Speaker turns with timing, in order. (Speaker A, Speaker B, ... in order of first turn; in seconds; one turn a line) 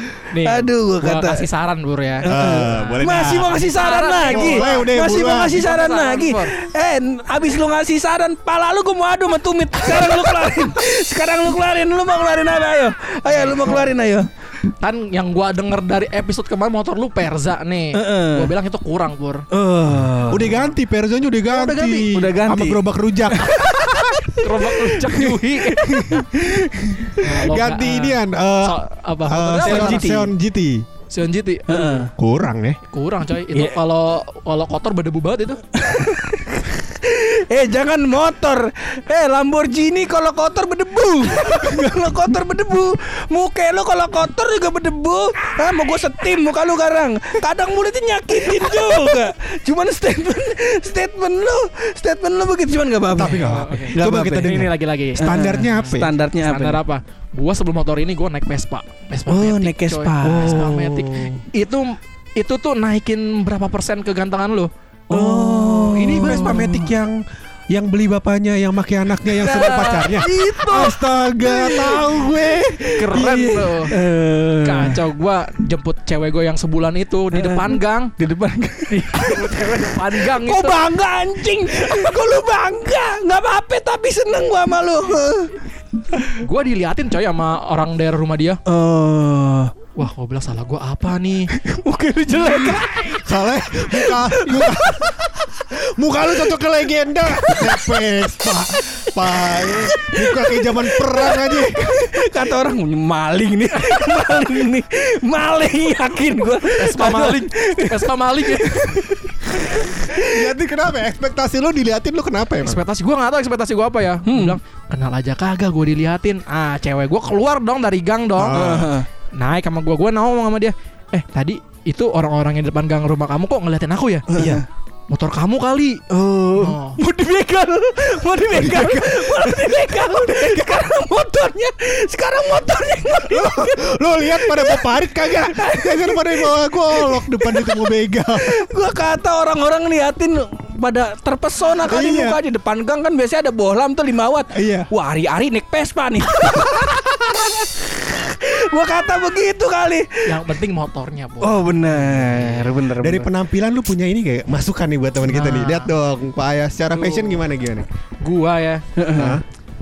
Speaker A: 0.3-3.0
Speaker B: 0.4-1.4
Speaker B: 2.2-14.3
Speaker C: 2.2-3.6
Speaker A: 3.5-6.5
Speaker C: 4.2-5.6
Speaker A: 13.2-13.9
Speaker A: 14.8-19.4
Speaker B: 17.9-18.5
Speaker B: 19.5-20.6
Speaker C: 20.3-24.4
Speaker A: 21.5-22.1
Speaker B: 21.7-22.8
Speaker B: 23.4-24.1
Speaker A: 24.4-26.2
Speaker C: 25.8-26.2
Speaker B: 25.8-27.1
Speaker A: 27.2-30.1
Speaker C: 27.2-30.8
Speaker B: 29.6-30.3
Speaker A: 31.1-32.1
Speaker B: 31.7-32.1
Speaker C: 32.1-32.8
Speaker A: 32.9-35.6
Speaker B: 35.7-54.5
Speaker C: 53.1-56.1
Speaker A: 53.2-55.3
Speaker B: 55.2-56.8
Speaker A: 55.9-64.7
Speaker B: 59.3-61.4
Speaker C: 60.2-60.8
Speaker B: 65.1-66.9
Speaker C: 65.1-67.2
Speaker A: 66.1-66.7
Speaker C: 67.7-73.8
Speaker A: 69.4-70.8
Speaker B: 69.5-75.0
Speaker A: 73.0-73.9
Speaker A: 74.6-78.1
Speaker B: 77.3-85.5
Speaker A: 79.0-80.8
Speaker A: 86.3-88.6
Speaker B: 88.7-89.7
Speaker A: 90.0-91.5
Speaker B: 91.5-93.3
Speaker C: 93.2-102.3
Speaker B: 93.8-95.1
Speaker B: 99.7-110.5
Speaker A: 106.7-109.0
Speaker C: 109.8-112.8
Speaker A: 112.6-118.6
Speaker B: 114.2-114.6
Speaker C: 118.3-119.0
Speaker B: 118.5-119.1
Speaker A: 119.3-124.3
Speaker B: 124.3-124.6
Speaker C: 124.3-124.6
Speaker A: 125.1-126.0
Speaker B: 126.1-150.5
Speaker A: 126.5-127.0
Speaker C: 128.5-130.8
Speaker C: 133.3-138.6
Speaker C: 141.8-142.4
Speaker C: 144.5-144.9
Speaker C: 146.5-147.1
Speaker A: 150.2-151.8
Speaker B: 151.4-153.3
Speaker C: 152.2-152.5
Speaker C: 153.0-157.8
Speaker A: 155.2-155.9
Speaker A: 156.9-157.4
Speaker A: 158.2-158.8
Speaker B: 158.9-159.4
Speaker C: 159.1-159.4